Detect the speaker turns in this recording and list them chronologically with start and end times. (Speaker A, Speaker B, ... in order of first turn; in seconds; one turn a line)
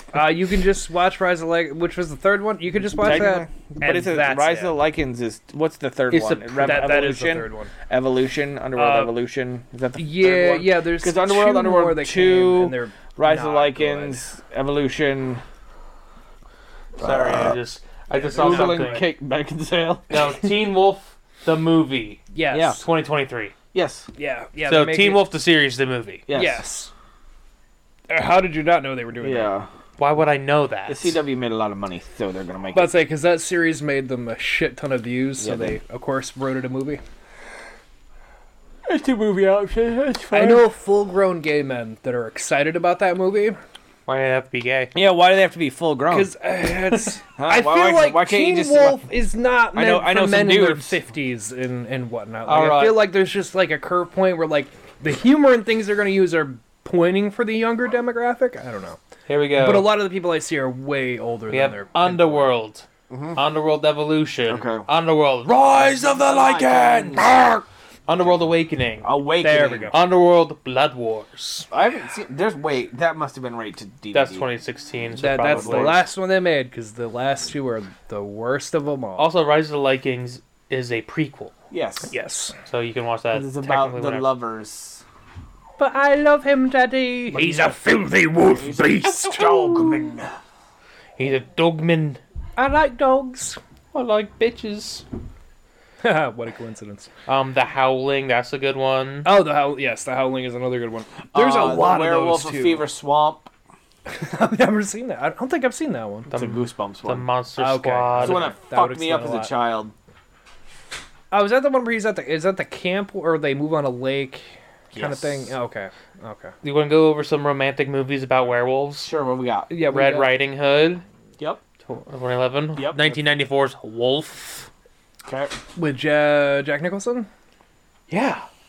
Speaker A: 0.1-4.7
Speaker B: 3.0-15.4
Speaker C: 6.1-6.9
Speaker A: 6.6-7.7
Speaker A: 8.8-9.2
Speaker A: 10.0-14.2
Speaker B: 17.0-17.6
Speaker C: 17.0-19.1
Speaker A: 18.1-19.1
Speaker B: 18.4-20.3
Speaker C: 20.1-23.5
Speaker A: 22.3-22.8
Speaker B: 22.5-22.8
Speaker B: 23.7-24.1
Speaker A: 24.2-25.2
Speaker C: 24.7-26.2
Speaker B: 26.3-26.6
Speaker A: 26.3-26.9
Speaker A: 28.1-29.5
Speaker B: 29.2-29.7
Speaker C: 30.0-31.2
Speaker B: 30.9-32.9
Speaker A: 32.7-37.0
Speaker B: 35.4-35.8
Speaker B: 38.9-40.7
Speaker A: 40.3-43.6
Speaker C: 44.1-44.9
Speaker B: 45.0-46.3
Speaker A: 46.1-59.0
Speaker B: 47.4-49.0
Speaker B: 49.7-51.0
Speaker C: 52.5-53.1
Speaker C: 59.3-60.0
Speaker A: 59.6-62.5
Speaker C: 61.5-69.1
Speaker B: 63.1-63.4
Speaker B: 64.5-64.9
Speaker B: 66.2-67.5
Speaker B: 69.0-70.0
Speaker A: 69.4-70.0
Speaker C: 69.9-71.7
Speaker B: 71.7-74.5
Speaker C: 74.1-76.0
Speaker A: 75.2-79.3
Speaker B: 75.5-76.0
Speaker C: 79.2-81.5
Speaker B: 81.7-82.1
Speaker A: 82.1-82.5
Speaker C: 82.7-84.3
Speaker B: 83.3-85.0
Speaker A: 85.8-90.0
Speaker C: 87.3-87.7
Speaker B: 88.5-90.3
Speaker C: 91.2-92.2
Speaker A: 92.6-93.6
Speaker C: 93.9-95.0
Speaker A: 96.0-97.1
Speaker C: 97.3-99.3
Speaker A: 99.2-102.9
Speaker B: 101.3-103.5
Speaker A: 104.1-106.3
Speaker C: 106.3-108.5
Speaker B: 106.3-107.3
Speaker A: 107.6-109.5
Speaker B: 108.2-109.9
Speaker A: 111.3-116.5
Speaker B: 114.9-115.5
Speaker C: 116.6-119.1
Speaker B: 119.0-119.7
Speaker A: 119.7-120.3
Speaker C: 119.9-121.0
Speaker C: 121.9-124.7
Speaker B: 122.8-123.1
Speaker B: 125.3-125.5
Speaker A: 125.8-127.3
Speaker C: 128.1-128.4